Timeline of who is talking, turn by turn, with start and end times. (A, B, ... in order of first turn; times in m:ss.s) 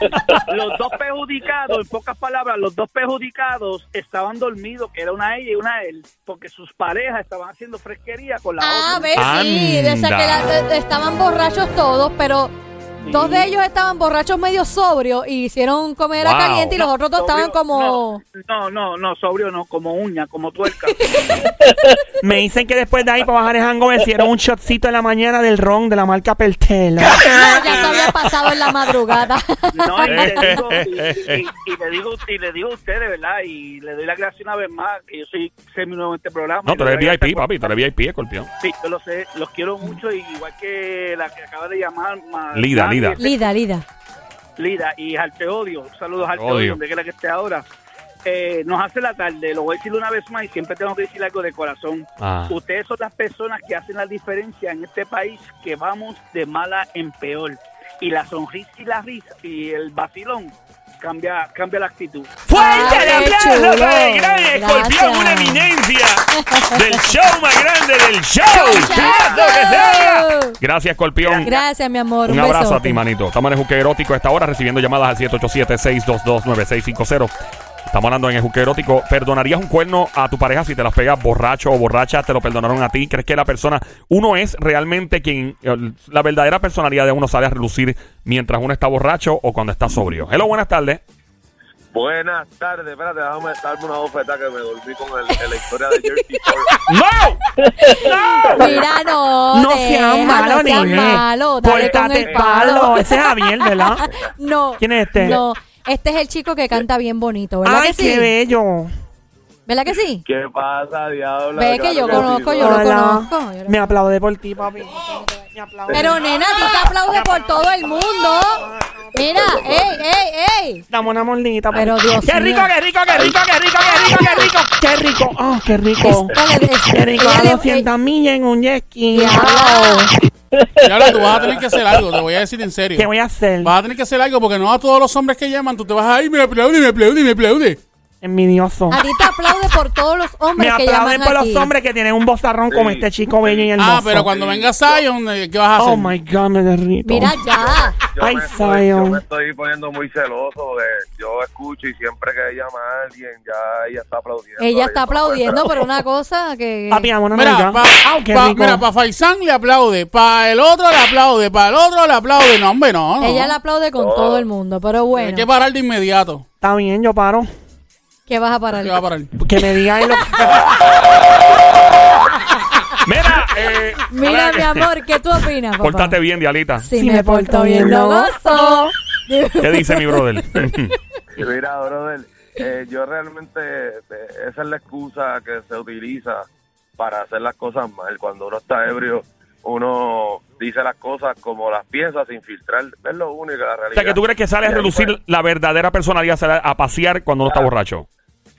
0:00.5-0:09.2 A
0:08.6-0:18.2 B
0:09.2-0:10.5 C
0:13.1-0:13.5 A
0:16.2-0:16.8 C
0:16.8-0:21.0 A
0:21.1-0:21.3 B
0:22.2-0:27.3 D
0:27.2-0:30.7 B
0:29.8-0:37.7 A
0:30.1-0:31.4 C
0:36.6-0:38.5 C
0:38.6-0:43.4 A
0:42.5-0:43.2 C
0:43.2-0:43.8 B
0:44.6-0:47.6 A
0:46.4-0:46.8 C
0:48.3-1:03.0 A
0:52.2-0:52.6 C
1:02.5-1:11.6 C
1:02.5-1:05.7 B
1:06.4-1:06.9 B
1:08.5-1:10.6 B
1:11.2-1:11.6 A
1:11.4-1:13.0 B
1:12.2-1:17.3 C
1:17.9-1:31.0 C
1:31.9-1:36.7 E
1:36.9-1:37.4 C
1:37.9-1:48.3 B
1:38.5-1:38.9 E
1:39.5-1:44.1 D
1:40.7-1:42.9 E
1:44.8-1:45.4 D
1:47.6-1:48.9 D
1:49.7-1:50.2 B
1:50.2-1:52.9 E
1:51.6-1:53.9 B
1:52.6-1:56.2 D
1:55.9-1:56.2 E
1:55.9-2:00.8 B
1:59.3-2:00.0 E
2:00.9-2:06.3 D
2:01.7-2:02.7 B
2:03.1-2:03.4 E
2:06.0-2:07.9 B
2:06.9-2:10.1 D
2:09.1-2:10.1 B
2:10.8-2:13.1 F
2:11.0-2:12.0 E
2:13.0-2:13.8 D
2:13.6-2:17.8 F
2:18.2-2:19.0 D
2:18.9-2:21.7 B
2:20.6-2:24.3 D
2:22.7-2:25.0 E
2:23.8-2:26.1 F
2:25.8-2:27.5 D
2:27.0-2:28.0 B
2:27.4-2:35.9 E
2:28.2-2:29.2 D
2:34.6-2:37.1 B
2:36.9-2:38.9 D
2:37.3-2:43.6 F
2:43.2-2:45.5 B
2:44.0-2:44.5 E
2:45.2-2:46.5 F
2:46.6-2:47.5 D
2:48.3-2:49.0 B
2:48.8-2:49.3 F
2:49.4-2:50.8 D
2:53.0-2:54.9 C
2:54.1-2:56.2 B
2:55.8-2:56.9 C
2:56.8-3:00.7 B
2:56.9-2:58.9 D
2:59.6-3:00.9 C
3:01.4-3:06.4 E
3:07.0-3:15.1 E
3:14.0-3:18.1 C
3:17.4-3:17.7 E